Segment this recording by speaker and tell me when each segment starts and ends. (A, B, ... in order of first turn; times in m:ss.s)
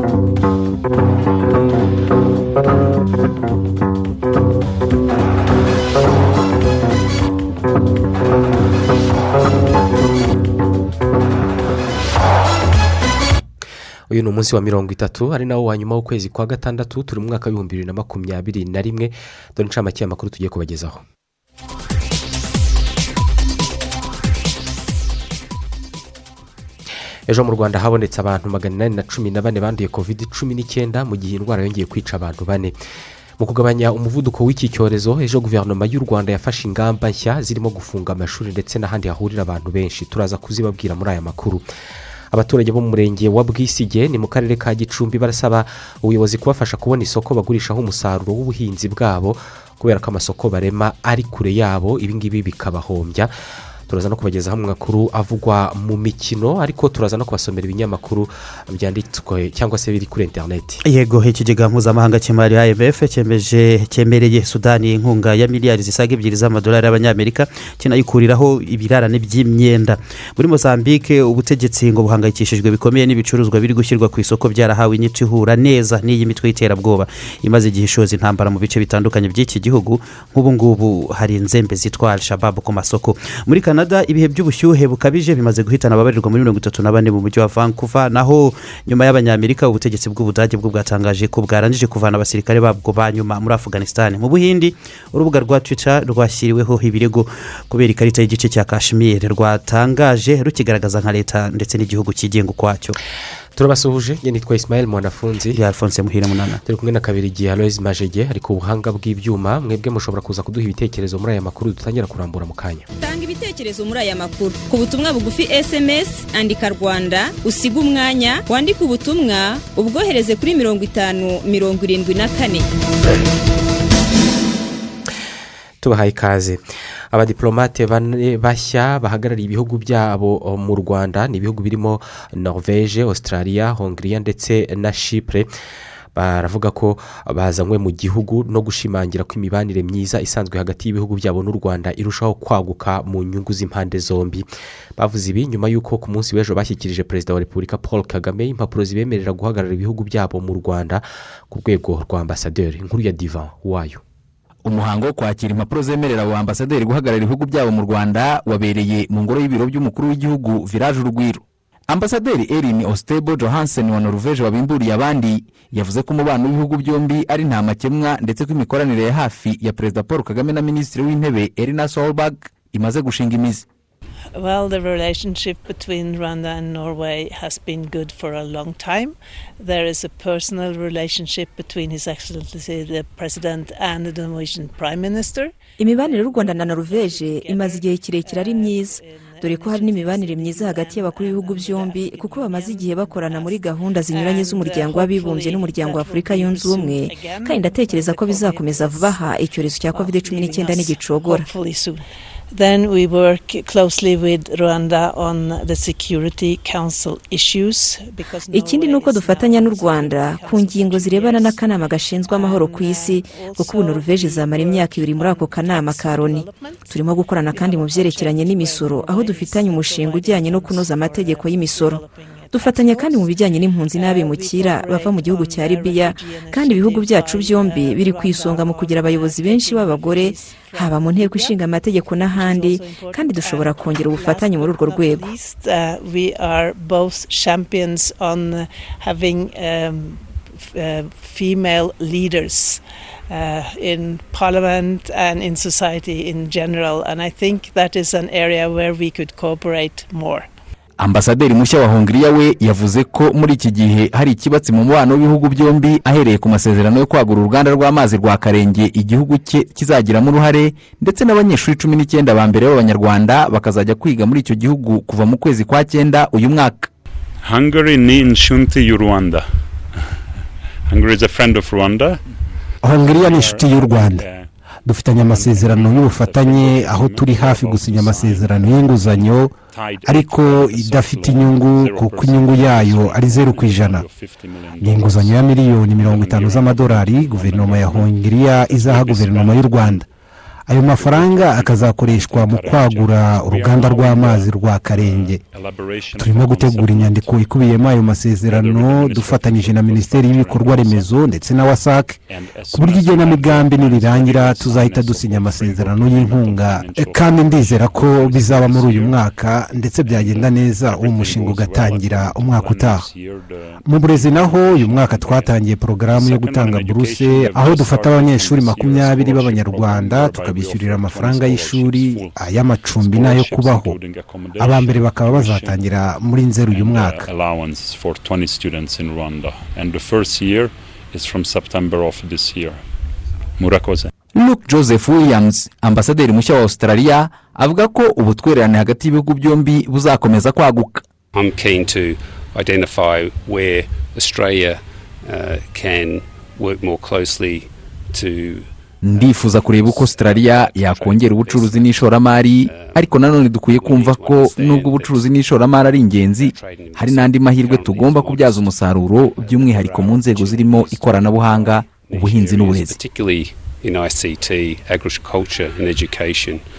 0:14.1-0:21.0 A
0:27.3-0:32.8 A
0:33.4-0:41.6 A
0:42.3-0:53.3 A
0:53.9-1:00.8 A
1:00.8-1:43.0 B
1:43.6-1:45.6 A
1:45.6-1:46.6 B
1:46.6-1:52.9 A
1:53.0-2:02.7 C
2:05.8-2:06.6 A
2:07.1-2:15.5 A
2:16.2-2:34.0 A
2:34.6-2:53.7 D
2:54.4-3:19.2 E
3:05.8-3:21.5 F
3:19.9-3:36.9 E
3:28.5-3:42.0 F
3:37.4-3:43.4 E
3:42.5-3:55.3 F
3:43.9-3:51.6 E
3:52.2-4:10.5 E
4:11.0-4:26.9 D
4:27.4-4:29.5 G
4:30.9-4:32.2 G
4:32.8-4:34.3 H
4:33.0-4:34.5 G
4:34.9-4:44.1 H
4:35.2-4:50.0 G
4:44.8-4:50.0 H
4:50.7-4:55.4 H
4:50.8-4:57.6 G
4:56.2-5:13.1 H
4:58.4-5:01.4 G
5:02.3-5:09.3 G
5:10.0-5:25.9 G
5:13.8-5:24.0 H
5:24.6-5:27.3 H
5:26.7-5:32.8 G
5:33.6-5:34.1 G
5:34.3-5:41.0 D
5:41.3-5:48.7 I
5:49.0-6:03.0 D
5:49.3-5:53.1 I
5:53.6-5:55.3 I
5:56.3-5:58.7 I
5:59.4-6:06.6 I